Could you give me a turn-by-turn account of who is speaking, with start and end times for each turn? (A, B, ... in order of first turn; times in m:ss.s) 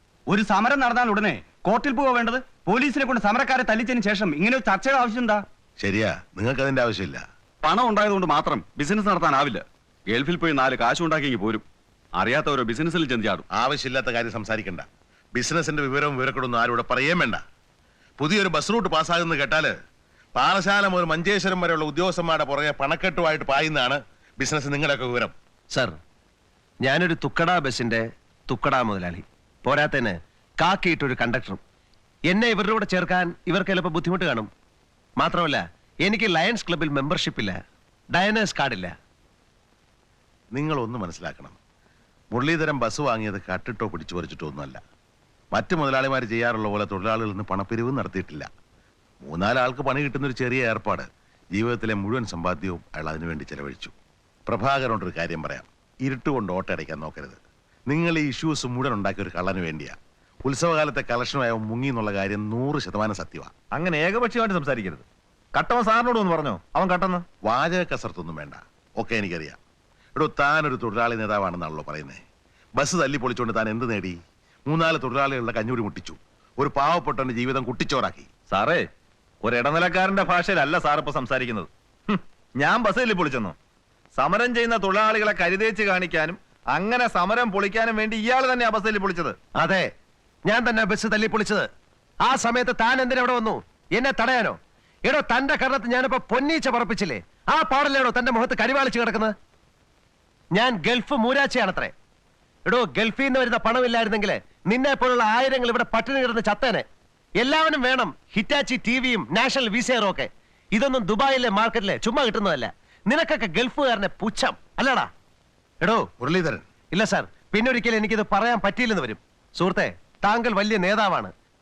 0:00.3-0:05.4 A
0:05.8-0:07.2 B
0:07.6-0:11.6 C
0:12.2-0:13.4 C
0:13.5-0:17.4 B
0:18.2-0:19.7 B
0:20.4-0:25.3 B
0:26.8-0:31.6 D
0:32.3-0:34.5 D
0:35.2-0:37.6 D
0:38.1-0:38.9 D
0:40.5-0:41.6 B
0:42.3-0:44.8 B
0:45.5-0:48.5 B
0:49.2-0:53.9 B
0:54.5-0:57.4 B
0:57.9-1:03.5 B
1:03.7-1:05.0 E
1:05.6-1:07.2 E
1:07.4-1:09.6 B
1:10.1-1:12.2 B
1:12.8-1:14.2 B
1:14.7-1:18.3 B
1:18.5-1:18.8 E
1:19.4-1:21.7 E
1:22.6-1:23.5 E
1:24.2-1:29.3 E
1:29.6-1:29.8 D
1:30.4-1:31.6 D
1:32.2-1:39.3 D
1:40.5-1:41.9 D
1:42.6-1:46.8 D
1:47.4-1:55.1 D
1:56.2-1:56.6 B
1:56.9-2:01.3 D